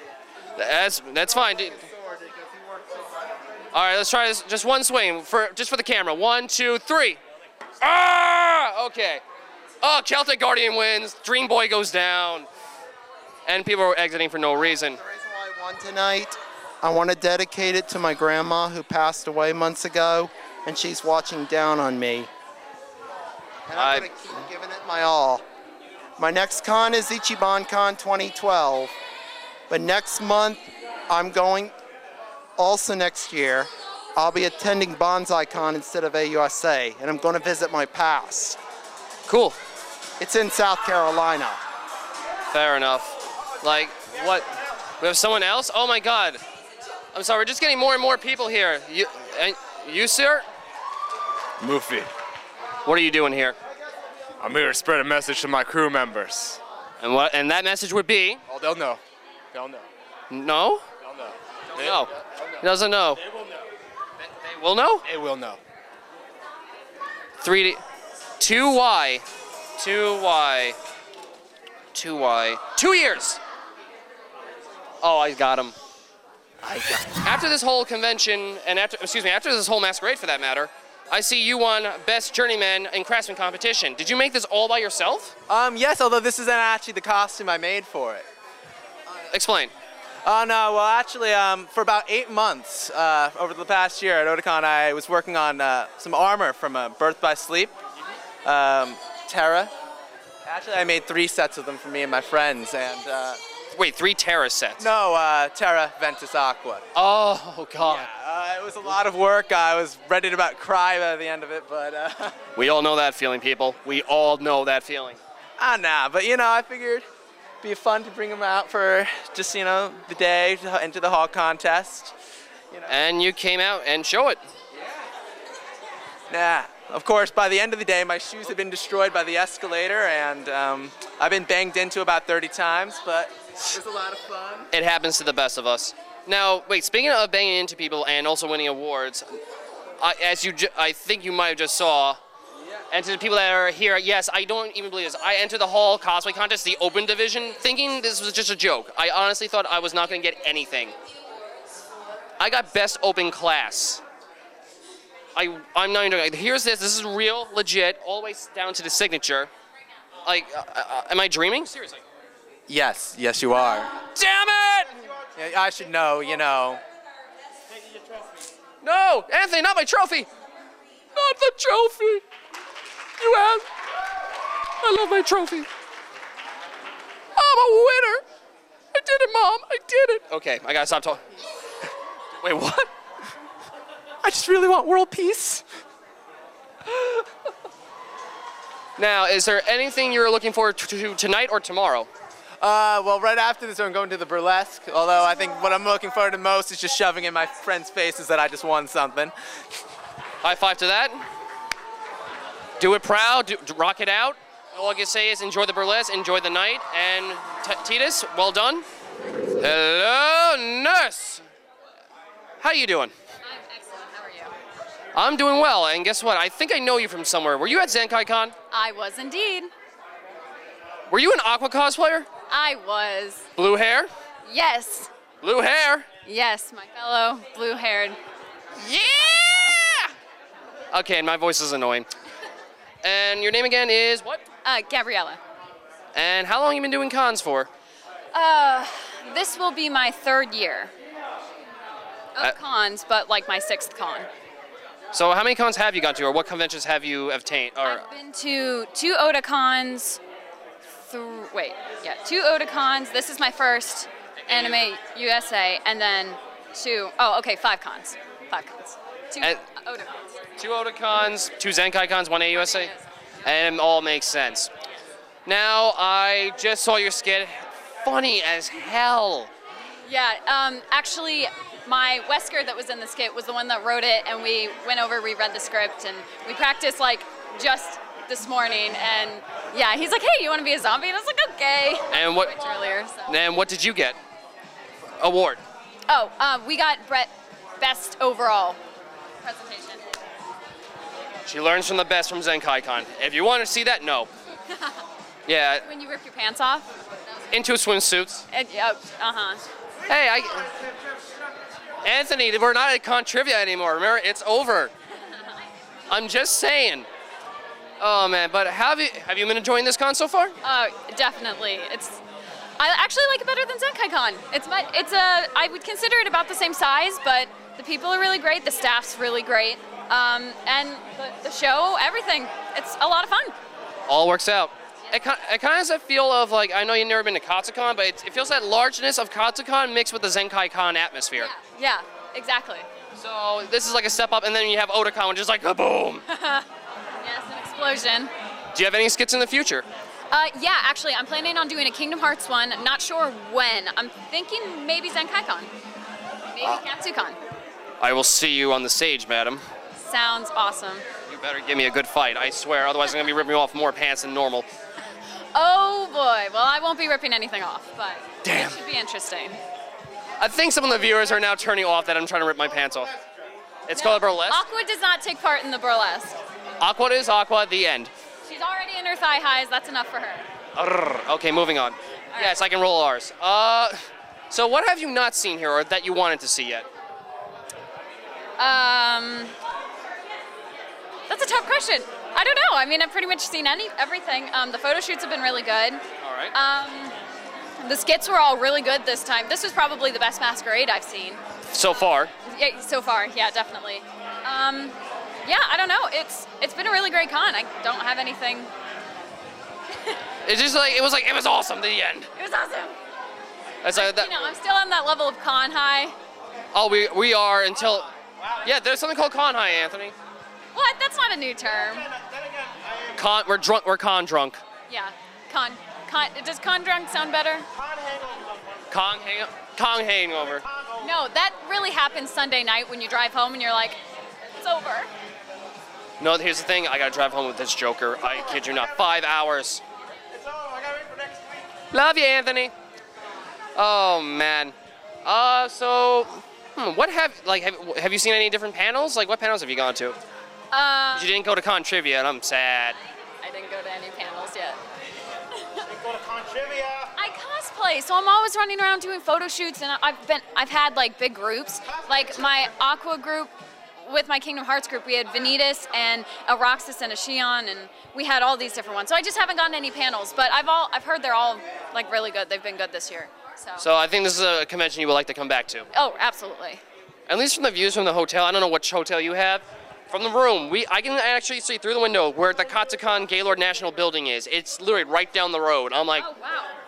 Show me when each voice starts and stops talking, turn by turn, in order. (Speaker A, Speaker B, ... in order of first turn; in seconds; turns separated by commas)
Speaker A: 0.6-1.9, Speaker B: 2.0-2.9, Speaker A: 3.7-7.2, Speaker A: 7.8-9.2, Speaker A: 9.8-12.5, Speaker A: 13.5-15.0, Speaker C: 14.9-22.3, Speaker C: 23.7-25.4, Speaker A: 23.7-24.1, Speaker C: 26.2-28.9, Speaker C: 29.7-31.7, Speaker C: 32.6-38.6, Speaker A: 39.2-39.6, Speaker C: 40.2-41.6, Speaker A: 42.5-46.4, Speaker A: 47.1-50.5, Speaker B: 51.6-52.1, Speaker A: 52.8-53.6, Speaker B: 54.4-56.6, Speaker A: 57.0-58.4, Speaker B: 58.5-59.0, Speaker B: 59.5-59.9, Speaker A: 60.3-60.9, Speaker B: 61.0-62.1, Speaker A: 61.7-63.2, Speaker A: 64.2-65.1, Speaker B: 65.0-65.6, Speaker A: 67.4-67.8, Speaker A: 68.4-69.2, Speaker A: 69.8-70.8, Speaker A: 71.9-73.4, Speaker A: 75.0-75.8, Speaker D: 76.7-77.0, Speaker A: 77.0-85.3, Speaker D: 85.5-88.2, Speaker A: 89.3-89.7, Speaker D: 90.2-97.8, Speaker D: 98.4-99.7, Speaker D: 100.4-103.4, Speaker A: 103.7-104.9, Speaker D: 104.8-106.8, Speaker A: 106.9-108.1, Speaker D: 107.8-112.4, Speaker A: 112.5-115.2, Speaker D: 115.6-117.0, Speaker D: 117.6-122.1, Speaker A: 122.9-124.4, Speaker D: 126.3-134.7, Speaker A: 134.7-139.3, Speaker A: 140.0-142.2, Speaker A: 142.9-150.9, Speaker A: 152.4-154.0, Speaker A: 155.3-159.5, Speaker A: 160.2-162.0, Speaker D: 162.7-163.9, Speaker A: 164.2-164.9, Speaker D: 165.3-166.8, Speaker A: 168.8-170.3, Speaker A: 171.2-172.2, Speaker A: 173.2-173.7, Speaker A: 174.8-175.7, Speaker A: 177.3-178.2, Speaker A: 178.9-181.2, Speaker A: 182.4-182.9, Speaker D: 184.2-185.6, Speaker A: 189.0-192.1, Speaker D: 192.6-199.3, Speaker A: 200.4-201.2, Speaker A: 202.8-208.8, Speaker A: 209.6-211.4, Speaker A: 212.6-213.1, Speaker E: 213.4-214.5, Speaker A: 215.1-218.6, Speaker E: 218.7-219.7, Speaker A: 221.1-222.3, Speaker E: 222.5-223.4, Speaker A: 223.6-224.1, Speaker E: 224.4-225.1, Speaker A: 225.4-226.1, Speaker E: 226.2-228.2, Speaker E: 228.8-229.8, Speaker A: 228.8-230.1, Speaker A: 230.9-232.1, Speaker A: 233.0-234.4, Speaker E: 234.6-235.4, Speaker A: 236.1-237.7, Speaker E: 238.3-240.9, Speaker E: 242.3-244.3, Speaker A: 245.1-248.1, Speaker E: 247.8-250.2, Speaker E: 251.1-260.3, Speaker A: 254.4-254.8, Speaker A: 260.6-262.9, Speaker E: 262.5-263.6, Speaker A: 263.4-264.7, Speaker A: 265.4-269.5, Speaker E: 270.0-283.4, Speaker A: 282.1-282.7, Speaker A: 283.2-284.2, Speaker A: 285.2-285.6, Speaker E: 286.1-288.8, Speaker E: 289.4-290.1, Speaker A: 291.4-294.3, Speaker E: 294.7-295.0, Speaker A: 295.5-295.9, Speaker E: 295.8-297.6, Speaker A: 297.5-298.4, Speaker E: 298.5-299.6, Speaker A: 300.1-300.8, Speaker A: 302.0-304.9, Speaker A: 306.1-307.1, Speaker A: 308.0-310.6, Speaker E: 310.6-312.2, Speaker E: 312.8-323.5, Speaker A: 324.1-331.5, Speaker E: 331.4-332.9, Speaker A: 333.1-336.2, Speaker E: 336.3-336.7, Speaker E: 337.2-338.3, Speaker A: 338.7-339.9, Speaker E: 340.3-345.7, Speaker E: 346.5-347.4, Speaker A: 348.0-349.6, Speaker E: 350.0-351.0, Speaker A: 351.3-354.7, Speaker E: 355.5-359.6, Speaker A: 358.4-358.8, Speaker A: 360.4-363.1, Speaker A: 363.9-364.6, Speaker E: 363.9-366.4, Speaker A: 366.8-368.1, Speaker E: 368.4-370.5, Speaker A: 370.7-374.0, Speaker E: 372.3-372.7, Speaker A: 374.5-376.9, Speaker E: 378.6-379.5, Speaker E: 381.3-386.0, Speaker A: 386.2-386.5, Speaker E: 386.5-387.1, Speaker E: 387.8-391.4, Speaker A: 391.7-392.3, Speaker E: 392.4-398.7, Speaker A: 400.4-402.3, Speaker E: 402.4-403.0, Speaker A: 403.8-404.4, Speaker E: 403.9-406.1, Speaker A: 406.7-408.1, Speaker A: 408.6-410.1, Speaker E: 410.7-412.1, Speaker A: 413.1-414.6, Speaker E: 414.9-417.7, Speaker A: 418.9-420.6, Speaker E: 421.0-425.1, Speaker A: 426.2-429.8, Speaker A: 431.9-432.7, Speaker A: 433.7-440.2, Speaker E: 440.7-441.4, Speaker A: 441.1-443.0, Speaker E: 443.4-444.8, Speaker E: 445.5-445.9, Speaker E: 447.1-463.8, Speaker A: 463.8-465.9, Speaker E: 465.9-466.8, Speaker A: 467.3-476.3, Speaker E: 476.1-476.8